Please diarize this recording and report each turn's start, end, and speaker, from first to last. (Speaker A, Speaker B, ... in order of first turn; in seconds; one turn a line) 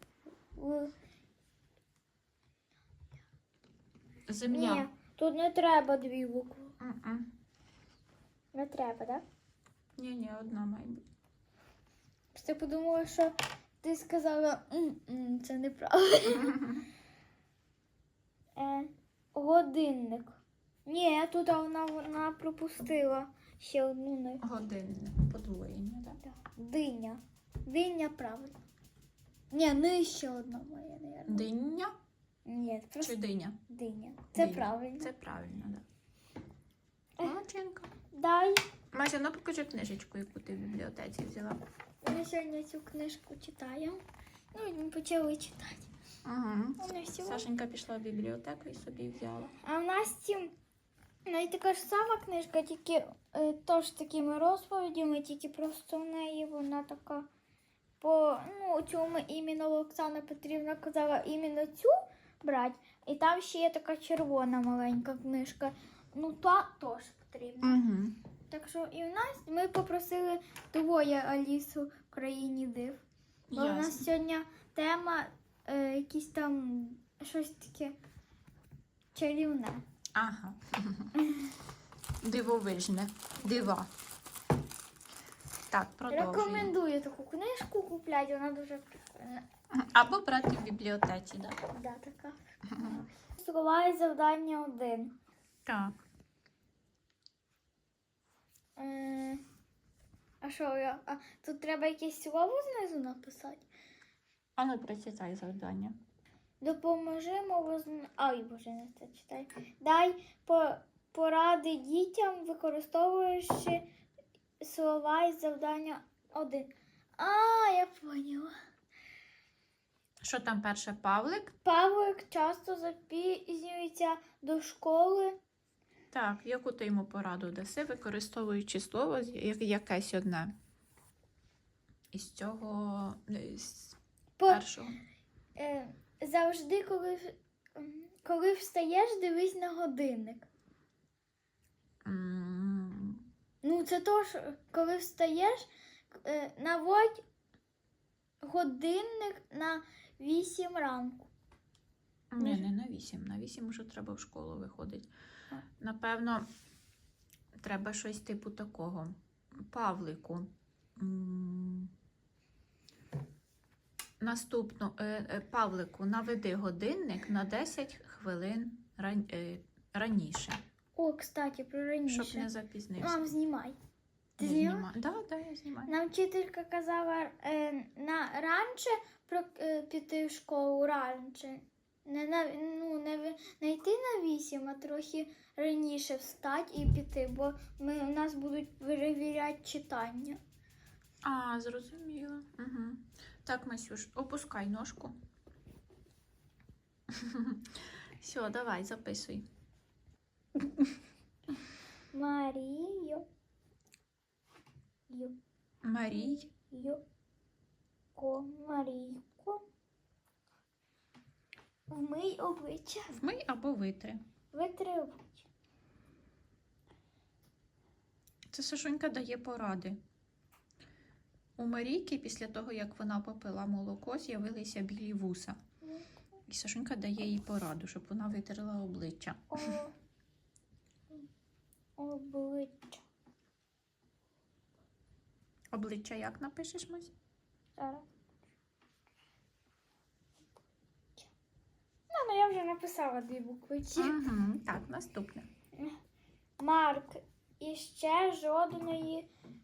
Speaker A: 0.6-0.9
Speaker B: 4.3-4.9
Speaker A: 4.5-6.7
Speaker B: 6.8-7.3
Speaker A: 8.5-9.2
Speaker B: 10.0-11.0
Speaker A: 12.3-16.6
Speaker A: 18.6-24.4
Speaker B: 24.4-26.2
Speaker A: 26.2-28.6
Speaker A: 29.5-31.5
Speaker B: 31.3-31.9
Speaker A: 32.5-35.1
Speaker B: 33.0-33.6
Speaker B: 34.3-35.8
Speaker B: 37.2-37.9
Speaker A: 38.1-38.6
Speaker B: 38.9-41.6
Speaker A: 42.0-44.0
Speaker A: 44.5-45.9
Speaker B: 46.2-49.5
Speaker A: 46.8-47.5
Speaker A: 49.6-50.5
Speaker A: 51.2-57.3
Speaker A: 58.0-67.8
Speaker B: 67.6-68.2
Speaker A: 68.5-73.0
Speaker B: 73.5-74.0
Speaker A: 73.5-78.0
Speaker A: 79.1-79.8
Speaker B: 80.1-81.1
Speaker B: 82.2-83.9
Speaker B: 85.7-86.7
Speaker A: 86.1-89.5
Speaker B: 89.7-91.6
Speaker A: 91.7-95.1
Speaker B: 92.7-93.0
Speaker B: 95.7-95.9
Speaker A: 98.8-99.4
Speaker A: 100.4-103.7
Speaker B: 104.6-106.0
Speaker A: 106.6-113.9
Speaker A: 114.6-118.5
Speaker B: 120.2-121.5
Speaker A: 121.6-125.4
Speaker B: 126.1-130.5
Speaker B: 132.1-135.0
Speaker A: 134.4-134.6
Speaker A: 135.6-140.5
Speaker B: 142.0-143.2
Speaker A: 143.6-147.2
Speaker A: 148.4-151.3
Speaker B: 152.3-155.1
Speaker A: 152.4-152.6
Speaker B: 155.8-156.4
Speaker B: 157.6-161.9
Speaker B: 164.2-170.6
Speaker A: 170.9-172.5
Speaker B: 172.1-173.3
Speaker A: 173.0-173.8
Speaker A: 174.4-174.9
Speaker B: 174.4-175.9
Speaker A: 175.9-190.4
Speaker B: 191.2-195.2
Speaker B: 197.1-197.6
Speaker B: 198.2-199.4
Speaker A: 202.1-203.2
Speaker A: 205.1-205.4
Speaker B: 205.8-206.5
Speaker A: 206.1-207.0
Speaker A: 208.1-209.6
Speaker A: 211.9-213.1
Speaker B: 213.1-214.2
Speaker A: 214.5-215.4
Speaker B: 218.5-220.0
Speaker B: 221.6-225.6
Speaker B: 226.5-229.8
Speaker A: 229.5-229.9
Speaker A: 232.0-233.0
Speaker B: 235.7-237.1
Speaker A: 237.8-238.1
Speaker A: 242.1-244.2
Speaker B: 243.9-245.5
Speaker A: 246.6-249.3